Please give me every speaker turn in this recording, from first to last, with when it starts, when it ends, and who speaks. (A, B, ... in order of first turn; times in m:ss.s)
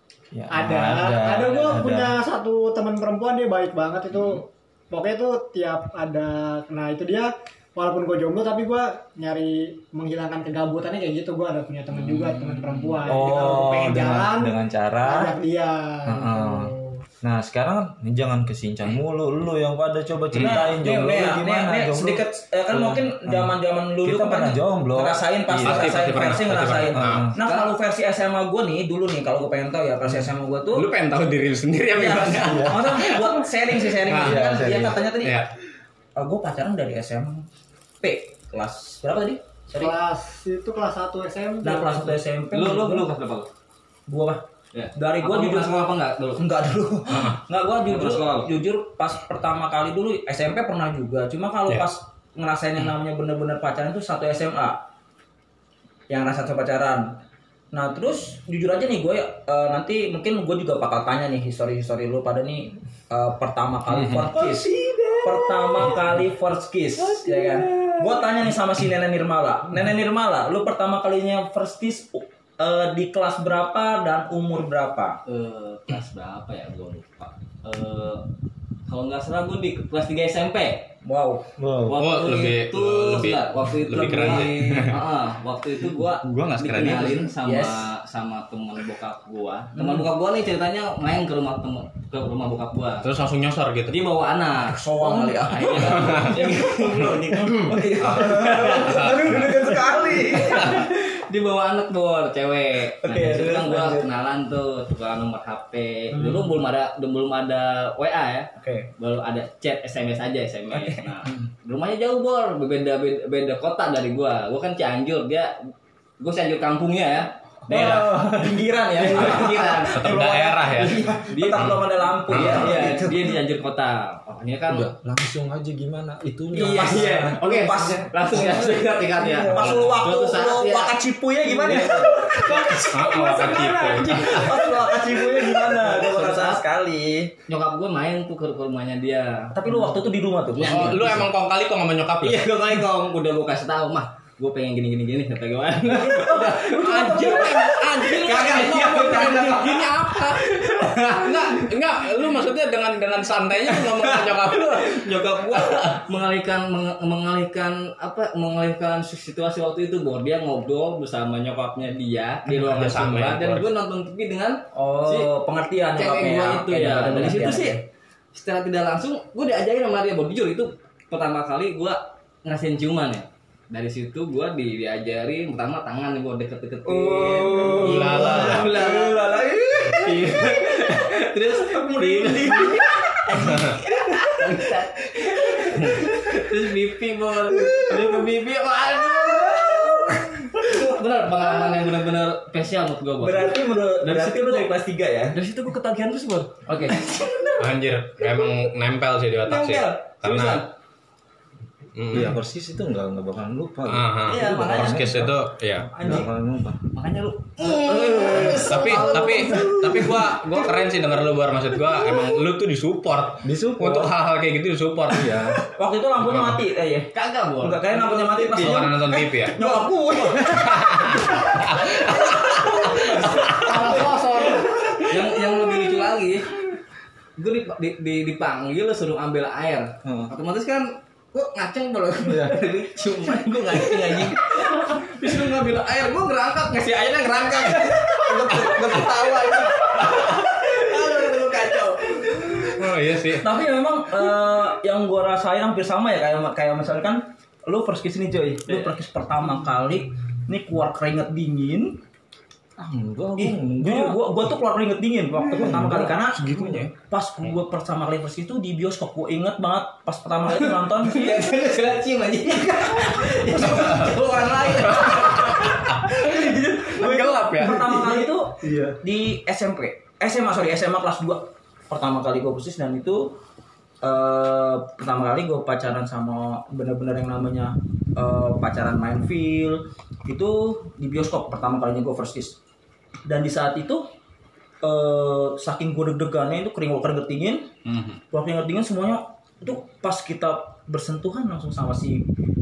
0:00.3-0:02.2 A
0:00.5-0:17.0 B
0:11.9-0:13.2 C
0:13.0-0:15.3 A
0:16.1-0:26.0 A
0:20.3-0:20.7 D
0:20.4-0:30.9 E
0:25.6-0:27.3 D
0:27.0-0:27.4 A
0:27.4-0:27.7 C
0:30.7-0:34.6 D
0:32.0-0:35.4 E
0:32.4-0:32.9 A
0:34.1-0:35.0 A
0:35.2-0:35.5 D
0:36.2-0:37.5 E
0:38.0-0:40.0 E
0:39.7-0:42.1 B
0:41.6-0:43.1 E
0:42.5-0:43.5 C
0:44.1-0:44.4 E
0:44.7-0:46.5 C
0:44.9-0:54.8 E
0:47.9-0:48.5 C
0:56.1-0:57.2 E
0:57.7-1:04.7 E
1:03.9-1:06.1 A
1:05.2-1:15.2 E
1:07.0-1:08.2 A
1:15.3-1:18.3 C
1:18.9-1:20.9 C
1:21.0-1:21.5 E
1:21.6-1:22.0 A
1:21.9-1:33.2 C
1:22.0-1:25.0 D
1:23.9-1:24.6 E
1:26.2-1:27.3 D
1:27.4-1:27.9 E
1:29.8-1:30.1 E
1:33.0-1:34.0 D
1:33.9-1:39.2 C
1:34.7-1:40.8 E
1:36.0-1:36.4 D
1:38.0-1:38.5 A
1:40.1-1:55.6 C
1:43.0-1:44.1 E
1:48.6-1:48.9 E
1:50.7-1:51.1 E
1:56.2-1:58.2 C
1:57.7-2:03.4 E
1:57.7-1:58.6 A
1:59.0-2:00.2 C
2:00.0-2:02.7 D
2:01.3-2:04.9 C
2:04.7-2:07.4 A
2:06.5-2:08.2 E
2:06.5-2:11.0 C
2:08.2-2:09.8 A
2:09.3-2:17.3 E
2:11.4-2:12.8 A
2:11.6-2:13.4 C
2:12.9-2:14.7 D
2:13.6-2:16.6 A
2:16.2-2:16.6 C
2:17.5-2:20.0 C
2:19.5-2:21.2 E
2:20.6-2:21.3 C
2:20.6-2:22.5 D
2:22.2-2:31.7 C
2:25.8-2:29.9 E
2:26.8-2:30.4 D
2:31.1-2:35.8 D
2:33.7-2:45.3 C
2:42.5-2:43.7 D
2:44.7-2:47.8 E
2:45.9-2:47.8 C
2:48.3-2:59.4 C
2:56.9-3:01.1 A
2:57.1-2:57.8 E
2:57.7-2:58.8 D
3:00.0-3:14.7 C
3:01.6-3:03.8 E
3:07.7-3:08.0 A
3:09.6-3:10.0 A
3:13.2-3:15.4 E
3:15.3-3:17.5 C
3:16.7-3:17.6 E
3:17.6-3:20.7 D
3:19.5-3:20.6 E
3:19.6-3:20.6 C
3:22.0-3:22.4 D
3:22.1-3:25.5 A
3:23.9-3:25.9 D
3:24.3-3:25.1 C
3:26.0-3:26.3 E
3:26.0-3:26.9 A
3:26.9-3:30.4 C
3:28.2-3:28.6 A
3:28.3-3:29.0 E
3:28.6-3:35.5 D
3:33.4-3:34.1 A
3:35.1-3:35.6 A
3:35.7-3:41.2 E
3:36.2-3:36.6 D
3:37.1-3:38.8 C
3:38.6-3:39.6 D
3:39.6-3:40.5 C
3:40.5-3:43.8 D
3:42.4-3:44.1 C
3:43.3-3:45.1 B
3:45.1-3:46.7 C
3:47.4-4:02.8 C
3:50.0-3:50.3 A
3:52.2-3:52.6 A
4:02.6-4:03.5 D
4:03.3-4:12.0 E
4:08.7-4:09.0 C
4:12.8-4:14.2 A
4:13.4-4:21.6 E
4:15.6-4:16.8 A
4:16.3-4:16.9 D
4:20.5-4:25.8 C
4:22.6-4:33.4 E
4:25.7-4:26.1 D
4:27.0-4:27.9 D
4:27.9-4:29.0 A
4:34.0-4:42.6 E
4:43.3-4:44.1 E
4:44.8-4:47.7 E
4:47.9-4:48.2 D
4:48.3-4:52.3 E